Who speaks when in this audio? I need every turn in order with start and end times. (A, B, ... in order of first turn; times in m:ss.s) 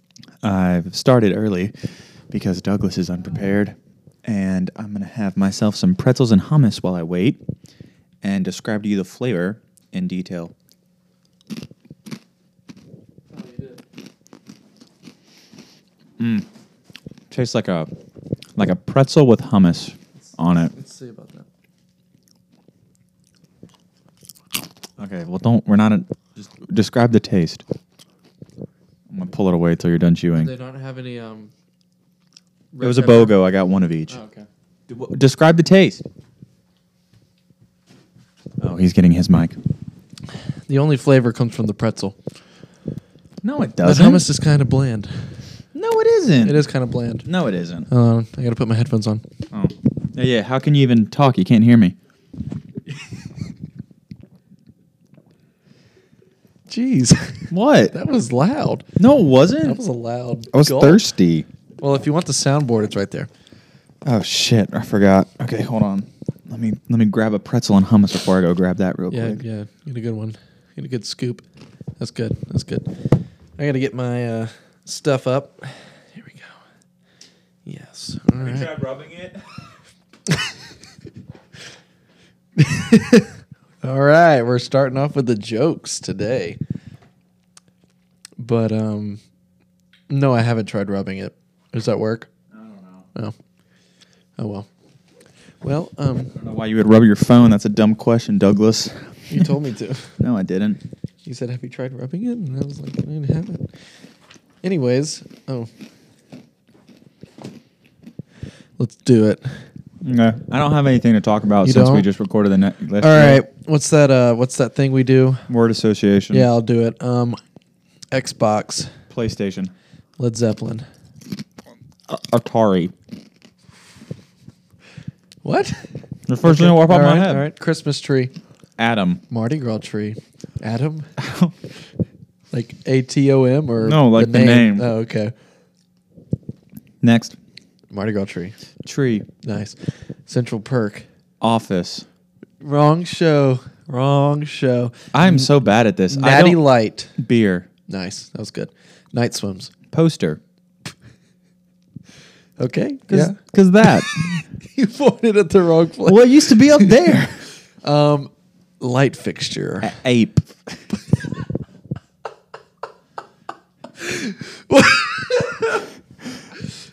0:00.4-0:01.7 A
0:02.3-0:07.4 A
0:08.2-0:10.5 A
0:13.3-0:13.8 B
0:16.2-0:16.4 A
0:17.3-0:17.9 A
0:18.6-0:20.7 A
0:20.3-0:21.4 B
0:25.0-0:27.6 A
0:29.1-0:30.5 A
0:30.3-0:31.5 B
0:32.7-0:33.4 B
0:32.8-0:34.2 A
0:34.1-0:34.5 B
0:34.9-0:36.0 A
0:38.6-0:39.6 A
0:40.7-0:42.2 B
0:43.4-0:44.2 A
0:43.8-0:45.4 B
0:45.7-0:46.6 A
0:46.4-0:47.3 B
0:47.2-0:47.9 A
0:47.9-0:49.2 B
0:49.5-0:52.0 A
0:56.7-0:58.9 B
0:57.5-0:58.0 A
0:59.0-0:59.8 A
0:59.6-1:01.0 B
1:00.5-1:01.5 A
1:01.8-1:03.3 B
1:04.0-1:09.4 A
1:09.1-1:11.4 B
1:12.0-1:13.0 B
1:13.6-1:16.6 B
1:17.7-1:18.7 B
1:18.4-1:19.7 A
1:20.3-1:20.6 B
1:22.6-1:26.6 B
1:28.4-1:29.2 B
1:30.1-1:32.3 B
1:32.5-1:33.0 A
1:34.4-1:34.7 B
1:35.6-1:36.3 B
1:36.3-1:39.5 A
1:39.3-1:40.1 B
1:40.2-1:40.8 A
1:41.2-1:43.7 B
1:44.6-1:45.7 B
1:48.8-1:49.5 B
1:50.0-1:53.4 A
1:51.6-1:52.1 B
1:53.0-1:55.4 B
1:55.5-1:56.5 A
1:56.3-1:57.4 B
1:58.1-1:58.9 B
1:59.1-1:59.7 A
2:00.2-2:00.8 B
2:02.1-2:02.9 A
2:05.4-2:05.9 B
2:06.3-2:07.4 A
2:06.4-2:08.3 B
2:08.8-2:09.2 A
2:09.3-2:11.1 B
2:11.2-2:11.5 A
2:12.5-2:15.3 B
2:13.8-2:14.9 A
2:17.0-2:17.4 A
2:17.9-2:18.6 B
2:18.8-2:19.3 A
2:19.4-2:21.1 B
2:21.4-2:22.1 A
2:22.6-2:25.5 B
2:25.1-2:26.6 A
2:26.1-2:27.1 B
2:27.2-2:27.7 A
2:27.9-2:29.7 B
2:29.9-2:30.4 A
2:32.6-2:34.0 B
2:33.1-2:34.4 A
2:34.6-2:37.0 B
2:36.1-2:37.4 A
2:37.8-2:39.9 B
2:39.8-2:40.7 A
2:44.0-2:45.9 B